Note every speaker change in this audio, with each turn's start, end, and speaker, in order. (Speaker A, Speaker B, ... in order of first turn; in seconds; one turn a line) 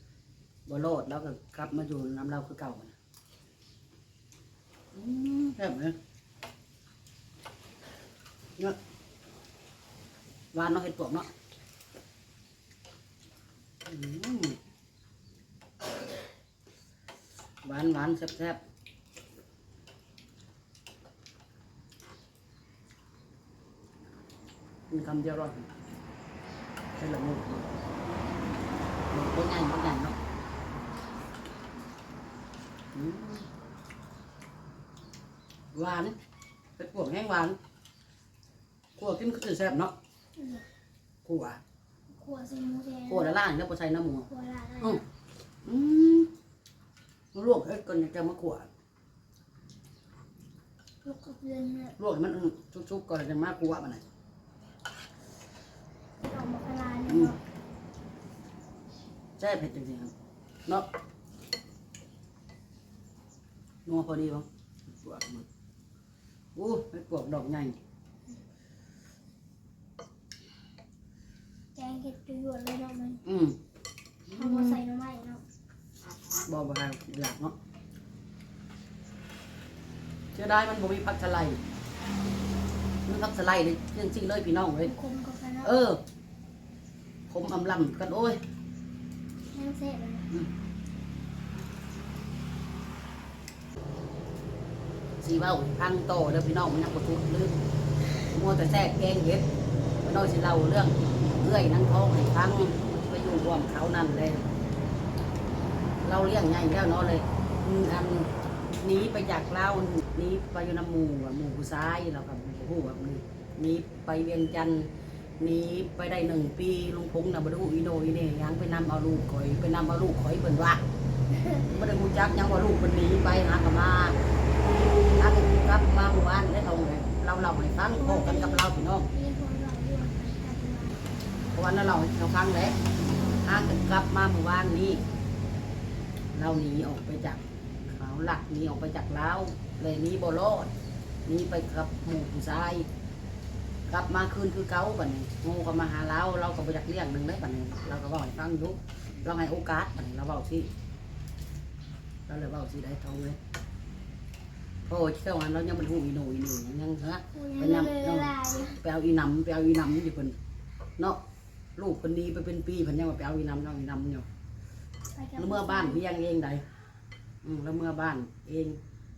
Speaker A: 0.7-3.0
Speaker A: 4.9-6.0
Speaker A: 10.5-11.3
Speaker A: 13.9-14.6
Speaker A: 17.6-18.6
Speaker A: 24.9-25.7
Speaker A: 27.0-27.7
Speaker A: 29.1-30.2
Speaker A: 32.9-33.5
Speaker A: 35.7-36.2
Speaker A: 36.8-37.6
Speaker A: 39.0-39.9
Speaker B: 40.4-40.6
Speaker A: 41.2-41.6
Speaker B: 42.1-43.4
Speaker A: 43.1-44.3
Speaker B: 44.3-45.0
Speaker A: 45.6-46.3
Speaker A: 47.3-48.7
Speaker B: 51.0-52.0
Speaker A: 52.0-54.0
Speaker B: 56.2-57.4
Speaker A: 57.1-57.3
Speaker A: 59.4-60.1
Speaker A: 63.9-65.5
Speaker A: 66.6-67.8
Speaker B: 71.8-73.2
Speaker A: 73.2-73.6
Speaker A: 74.3-74.8
Speaker B: 74.3-75.4
Speaker A: 76.5-77.5
Speaker A: 80.3-81.6
Speaker A: 83.1-84.9
Speaker B: 84.8-85.7
Speaker A: 85.6-86.0
Speaker A: 87.3-88.4
Speaker B: 89.5-90.3
Speaker A: 95.2-97.6
Speaker A: 98.3-99.5
Speaker A: 100.0-104.5
Speaker A: 106.0-120.8
Speaker B: 121.3-121.6
Speaker A: 121.7-124.2
Speaker A: 125.2-129.1
Speaker B: 128.0-131.0
Speaker A: 131.5-132.8
Speaker B: 133.0-133.5
Speaker A: 133.4-135.0
Speaker A: 136.3-140.7
Speaker A: 141.3-142.9
Speaker A: 143.9-150.7
Speaker A: 152.3-153.4
Speaker A: 154.9-160.4
Speaker B: 157.3-158.8
Speaker A: 161.8-164.3
Speaker B: 165.1-166.0
Speaker A: 165.4-166.6
Speaker A: 167.4-168.8